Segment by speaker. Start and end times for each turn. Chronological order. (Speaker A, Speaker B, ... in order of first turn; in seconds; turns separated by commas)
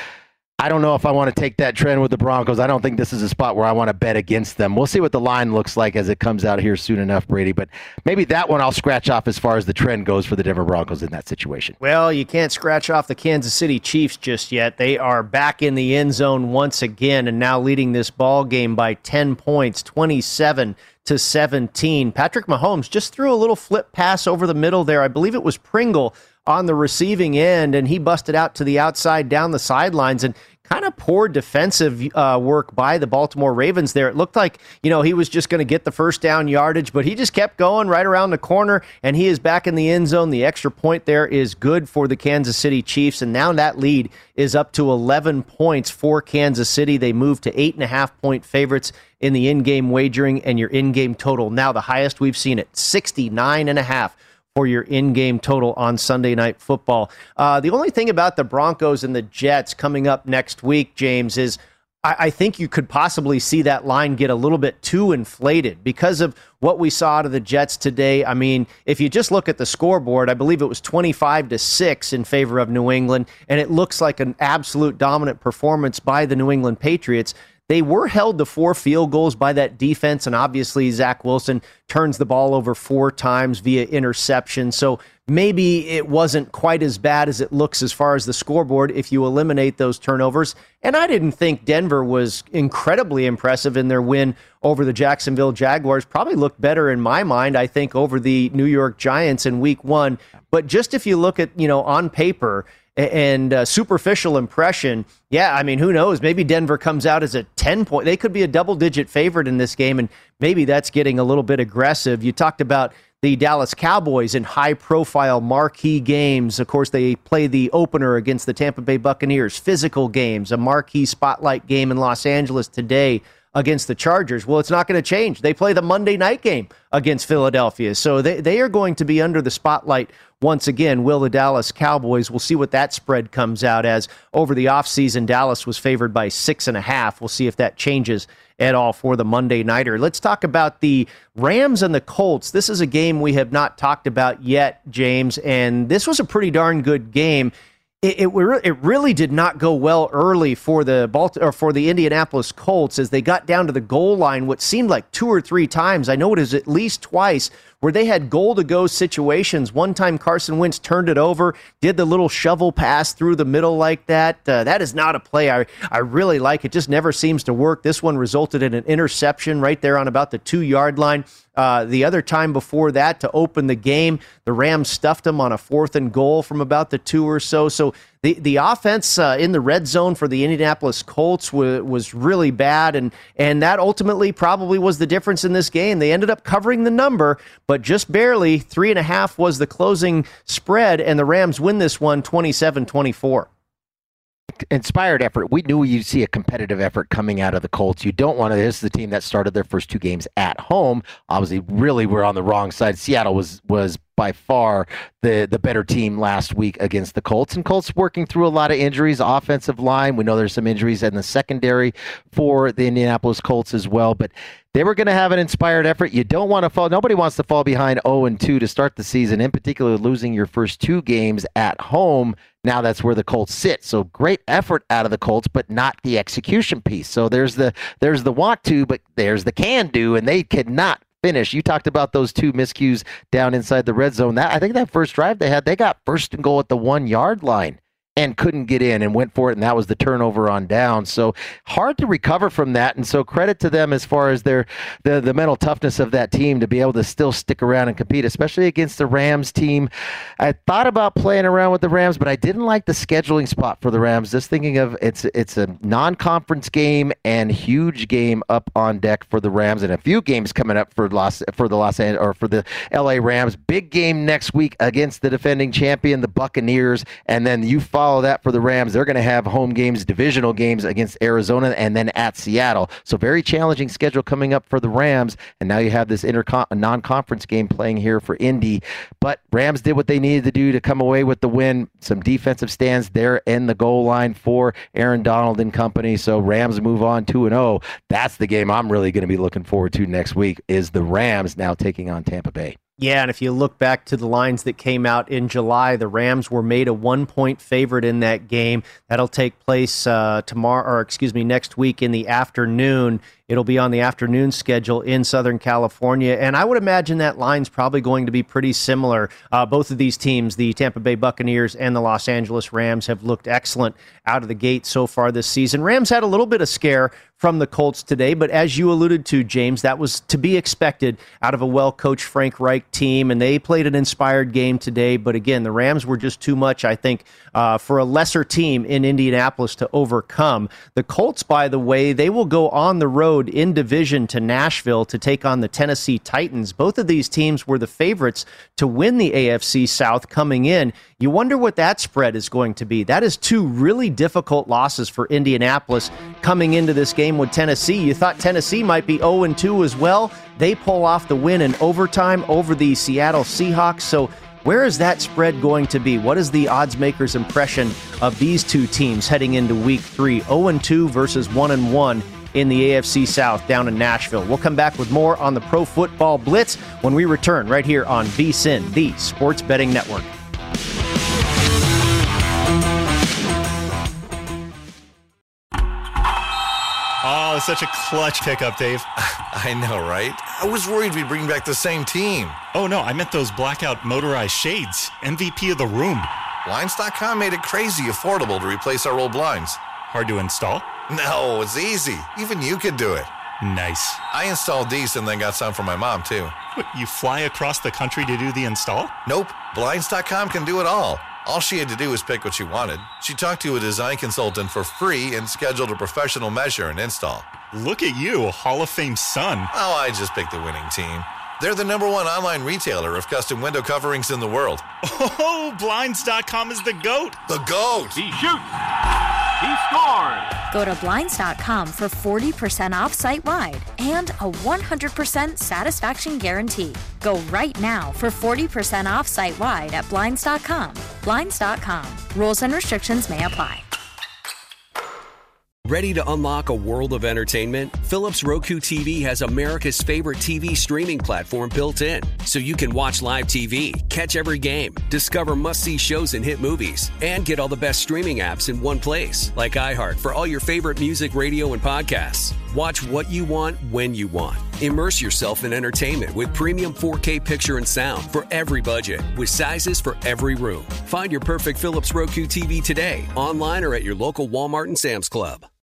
Speaker A: 0.6-11.8, Speaker B: 11.8-193.5, Speaker A: 194.7-292.8, Speaker B: 293.0-370.3, Speaker C: 377.2-379.1, Speaker D: 379.2-382.6, Speaker C: 382.7-386.3, Speaker D: 386.6-389.8, Speaker C: 390.1-390.9, Speaker D: 391.1-393.3, Speaker C: 393.6-394.2, Speaker D: 394.3-396.6, Speaker C: 396.7-399.1, Speaker D: 399.3-407.6, Speaker C: 407.7-409.7, Speaker D: 409.7-414.9, Speaker C: 415.0-417.4, Speaker D: 417.5-418.3, Speaker E: 420.7-433.9, Speaker F: 435.9-465.7